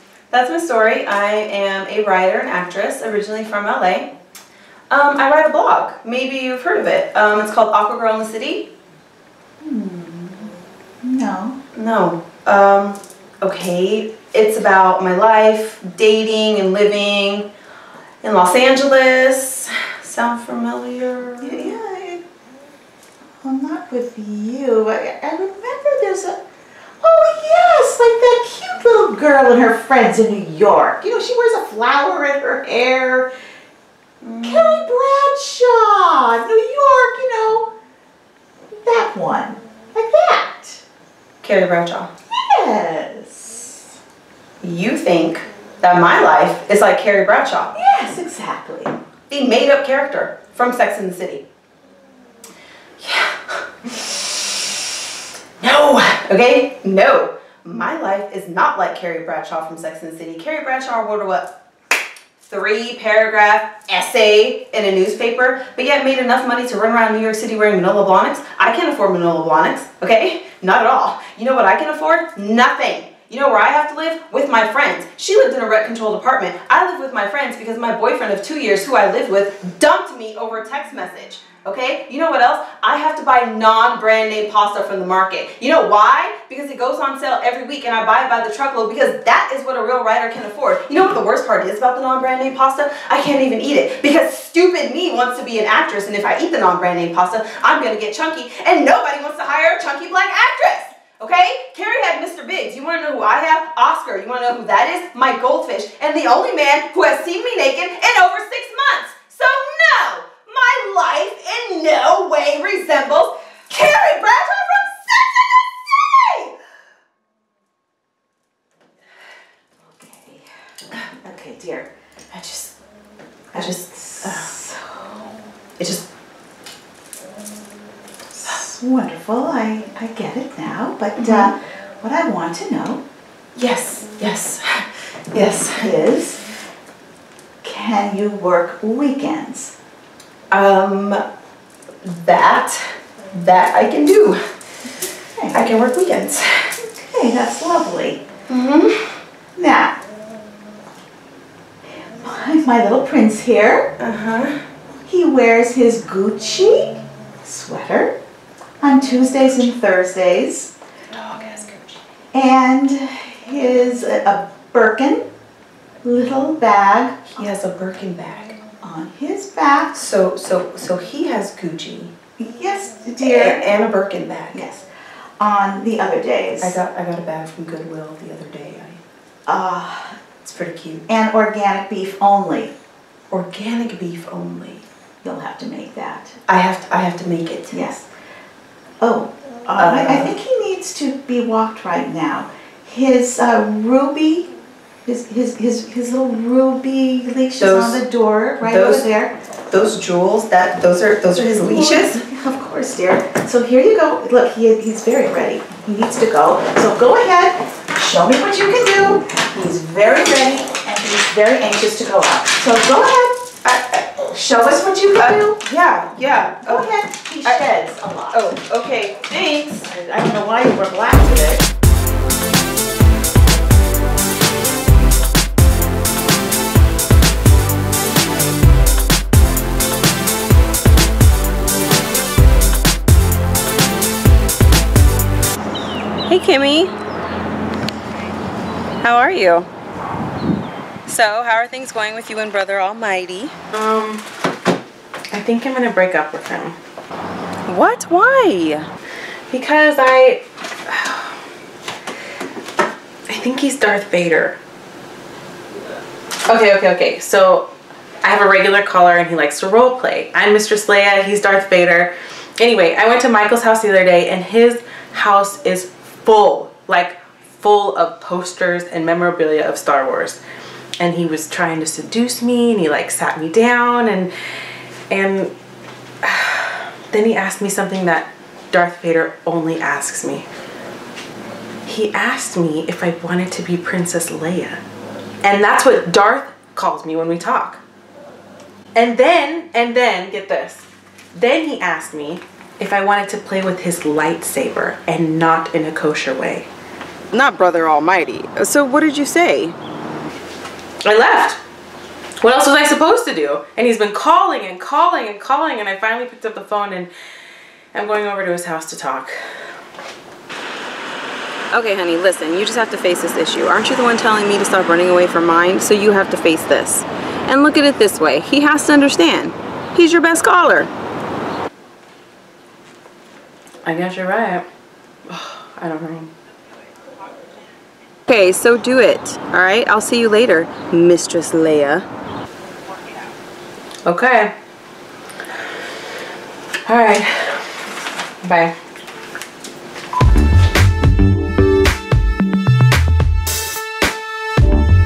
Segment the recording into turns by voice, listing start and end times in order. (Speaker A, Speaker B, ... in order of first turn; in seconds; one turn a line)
Speaker A: 0.3-4.1
Speaker A: 4.9-8.7
Speaker B: 9.6-10.5
Speaker B: 11.0-11.6
Speaker A: 11.7-17.5
Speaker A: 18.2-21.7
Speaker B: 21.4-22.2
Speaker B: 23.4-26.4
Speaker B: 27.0-33.3
Speaker A: 34.2-34.8
Speaker B: 34.4-37.7
Speaker B: 38.7-40.8
Speaker A: 41.4-42.1
Speaker B: 42.3-43.8
Speaker A: 44.6-47.7
Speaker B: 47.8-48.9
Speaker A: 49.3-51.4
Speaker A: 53.0-54.1
Speaker A: 55.6-61.5
Speaker A: 62.4-116.5
Speaker B: 119.8-120.4
Speaker B: 121.1-121.9
Speaker A: 122.3-122.7
Speaker B: 123.5-124.8
Speaker A: 123.5-124.6
Speaker A: 125.8-126.0
Speaker B: 128.4-133.0
Speaker A: 131.2-131.5
Speaker A: 133.6-135.9
Speaker B: 135.8-136.5
Speaker B: 137.6-139.7
Speaker A: 140.5-141.2
Speaker A: 142.0-144.4
Speaker B: 145.3-145.7
Speaker A: 145.5-146.7
Speaker B: 147.0-148.2
Speaker A: 148.5-149.2
Speaker B: 149.5-150.0
Speaker B: 152.1-153.9
Speaker A: 154.0-154.6
Speaker B: 155.1-158.2
Speaker B: 158.8-160.7
Speaker A: 161.1-161.9
Speaker B: 162.3-165.2
Speaker B: 166.0-167.2
Speaker A: 167.2-168.6
Speaker B: 168.8-170.1
Speaker A: 169.9-172.1
Speaker B: 172.4-173.7
Speaker A: 173.2-174.6
Speaker B: 174.5-174.8
Speaker B: 175.4-176.8
Speaker A: 176.6-179.0
Speaker B: 179.4-180.2
Speaker A: 180.4-181.0
Speaker B: 181.1-182.7
Speaker A: 183.3-184.8
Speaker B: 185.2-186.4
Speaker A: 186.5-188.0
Speaker B: 187.7-188.0
Speaker B: 189.0-194.5
Speaker A: 189.8-190.3
Speaker B: 195.0-199.3
Speaker A: 197.6-198.0
Speaker A: 198.6-199.1
Speaker A: 199.7-202.2
Speaker B: 201.3-213.5
Speaker A: 213.6-214.1
Speaker B: 214.2-215.6
Speaker A: 215.1-216.9
Speaker B: 216.6-218.5
Speaker A: 217.4-217.8
Speaker A: 218.3-220.1
Speaker B: 220.0-221.6
Speaker A: 236.3-236.9
Speaker A: 239.0-239.7
Speaker A: 241.1-243.5
Speaker C: 243.7-244.2
Speaker C: 245.3-246.8
Speaker A: 247.7-248.9
Speaker C: 249.5-251.3
Speaker C: 253.3-254.6
Speaker C: 256.4-257.7
Speaker C: 258.2-270.4
Speaker C: 271.0-274.3
Speaker C: 275.1-275.5
Speaker C: 276.2-280.4
Speaker C: 281.8-284.8
Speaker C: 285.4-287.8
Speaker C: 288.9-296.7
Speaker A: 297.3-299.7
Speaker C: 301.0-301.6
Speaker C: 302.4-307.1
Speaker C: 307.9-309.4
Speaker A: 311.7-320.9
Speaker C: 323.8-324.6
Speaker C: 325.3-326.3
Speaker A: 328.3-332.1
Speaker C: 334.0-334.5
Speaker C: 336.9-337.7
Speaker C: 338.4-338.7